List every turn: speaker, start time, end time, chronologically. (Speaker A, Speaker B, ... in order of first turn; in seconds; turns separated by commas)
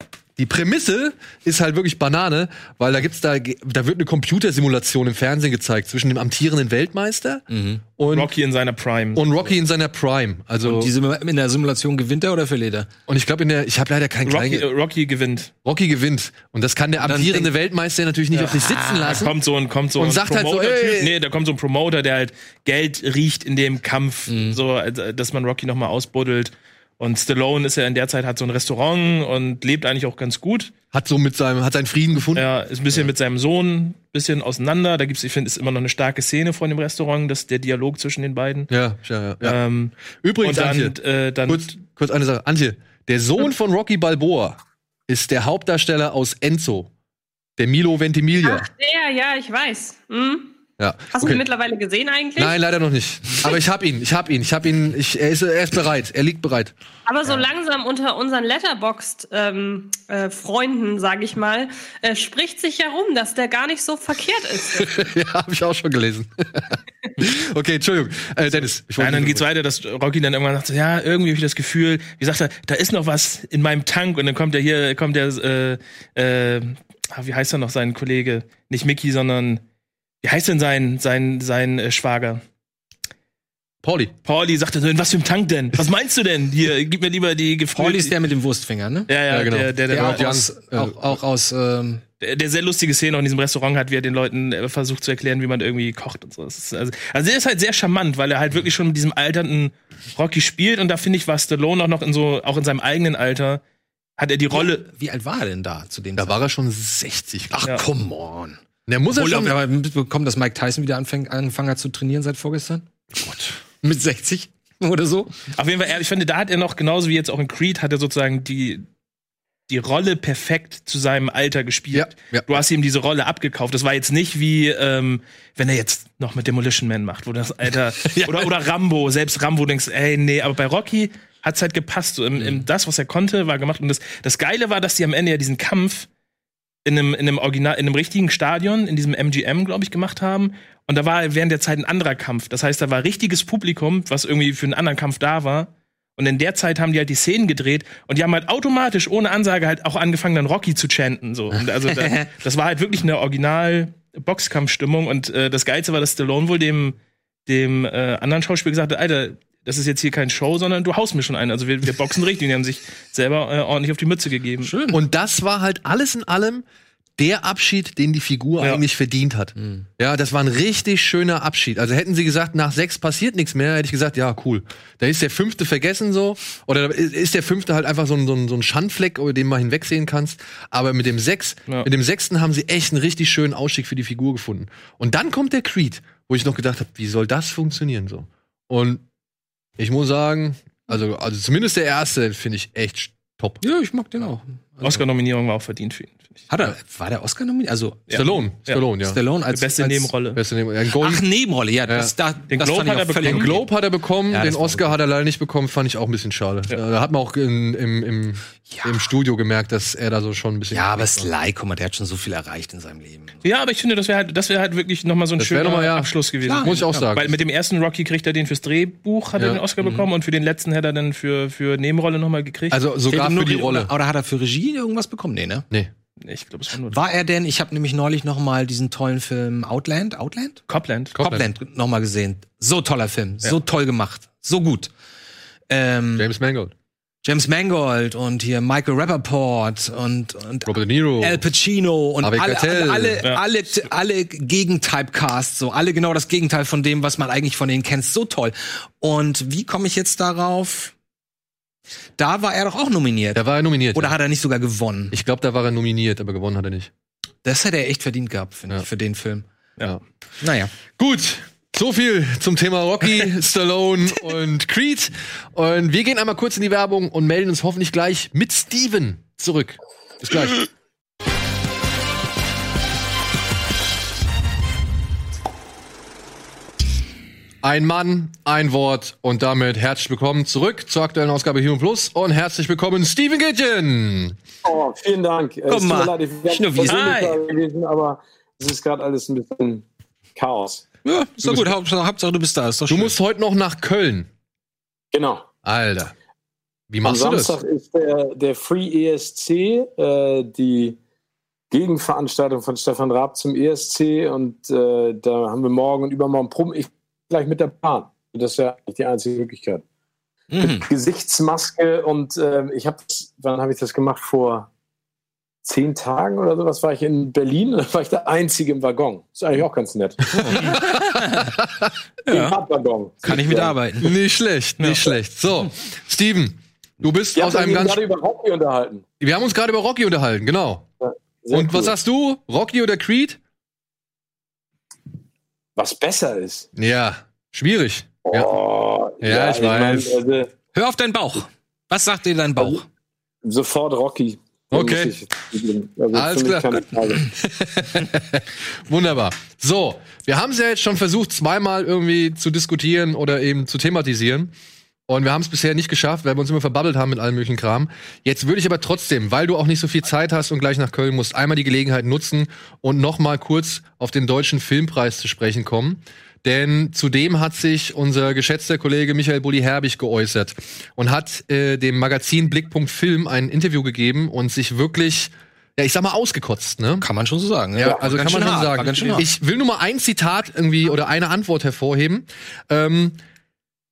Speaker A: 0.4-7.5, Speaker B: 7.5-7.8, Speaker A: 8.0-8.3, Speaker C: 8.1-9.3, Speaker A: 9.2-10.9, Speaker B: 10.6-12.9, Speaker A: 13.1-14.7, Speaker C: 14.2-15.5, Speaker A: 15.6-19.3, Speaker B: 17.0-17.5, Speaker B: 18.4-19.2, Speaker C: 19.0-30.7, Speaker A: 20.0-21.1, Speaker B: 24.3-24.6, Speaker A: 30.9-32.5, Speaker C: 32.4-38.7, Speaker A: 38.7-39.6, Speaker C: 39.4-41.7, Speaker A: 40.2-41.0, Speaker A: 41.5-46.9, Speaker A: 47.6-48.7, Speaker D: 48.4-50.5, Speaker A: 50.8-51.4, Speaker D: 51.1-52.6, Speaker A: 52.4-56.7, Speaker D: 57.1-65.1, Speaker A: 64.8-69.5, Speaker C: 68.5-79.6, Speaker C: 80.2-82.4, Speaker A: 83.8-84.1, Speaker C: 84.2-88.1, Speaker B: 87.8-89.1, Speaker C: 89.1-90.2, Speaker A: 89.3-91.2, Speaker B: 89.9-92.0, Speaker C: 92.2-103.6, Speaker C: 104.2-104.9, Speaker B: 104.5-106.4, Speaker A: 106.2-107.6, Speaker B: 107.5-108.6, Speaker A: 108.9-109.6, Speaker B: 109.1-112.8, Speaker A: 113.2-113.6, Speaker B: 113.8-115.4, Speaker C: 115.5-118.9, Speaker C: 119.7-136.1, Speaker A: 121.9-122.6, Speaker A: 128.1-128.4, Speaker C: 136.8-157.0, Speaker B: 151.9-152.3, Speaker C: 157.5-164.7, Speaker B: 164.6-165.0, Speaker A: 164.9-166.7, Speaker A: 167.2-189.0, Speaker B: 169.6-169.8, Speaker A: 189.8-193.6, Speaker B: 193.6-195.0, Speaker C: 194.8-196.4, Speaker B: 196.5-198.3, Speaker C: 198.1-198.8, Speaker A: 198.1-199.2, Speaker B: 199.0-200.1, Speaker C: 199.5-200.4, Speaker A: 200.3-201.3, Speaker B: 200.9-203.7, Speaker A: 201.8-202.1, Speaker C: 202.5-203.5, Speaker A: 203.2-211.3, Speaker B: 204.3-205.0, Speaker B: 208.7-209.0, Speaker B: 210.7-213.4, Speaker C: 213.4-222.8, Speaker A: 215.4-217.4, Speaker B: 216.4-217.1, Speaker A: 219.4-219.6, Speaker A: 222.7-223.9, Speaker B: 223.1-225.7, Speaker C: 226.2-227.0, Speaker B: 226.9-230.6, Speaker C: 230.7-231.1, Speaker A: 231.1-231.5, Speaker B: 231.2-234.9, Speaker B: 235.7-236.3, Speaker A: 236.2-236.7, Speaker B: 237.2-250.9, Speaker A: 240.7-241.4, Speaker A: 242.2-243.2, Speaker B: 252.2-253.4, Speaker A: 253.3-254.2, Speaker B: 253.9-255.1, Speaker A: 255.1-256.9, Speaker B: 257.4-259.4, Speaker B: 260.4-260.7, Speaker A: 260.9-270.6, Speaker A: 277.6-284.4, Speaker E: 284.6-289.9, Speaker B: 285.7-287.3, Speaker C: 286.9-287.4, Speaker E: 290.4-290.9, Speaker B: 291.0-293.1, Speaker A: 291.4-291.7, Speaker A: 292.9-294.3, Speaker E: 295.1-295.4, Speaker A: 295.6-296.1, Speaker A: 296.9-297.6, Speaker E: 297.0-301.0, Speaker E: 301.7-309.8, Speaker B: 310.5-310.9, Speaker E: 310.6-314.7, Speaker E: 315.6-320.6, Speaker B: 320.4-321.5, Speaker A: 320.5-321.9, Speaker E: 322.3-323.8, Speaker B: 323.3-324.1, Speaker A: 324.0-328.0, Speaker C: 324.8-325.1, Speaker E: 327.4-329.1, Speaker A: 329.2-330.9, Speaker E: 331.0-331.9, Speaker A: 331.5-333.4, Speaker E: 335.8-336.7, Speaker A: 336.8-338.5, Speaker E: 338.3-340.5, Speaker A: 339.2-340.1, Speaker B: 340.7-342.9, Speaker E: 343.4-347.2, Speaker A: 344.7-345.1, Speaker A: 346.1-354.5, Speaker A: 355.1-377.1, Speaker B: 377.0-379.3, Speaker A: 377.8-383.2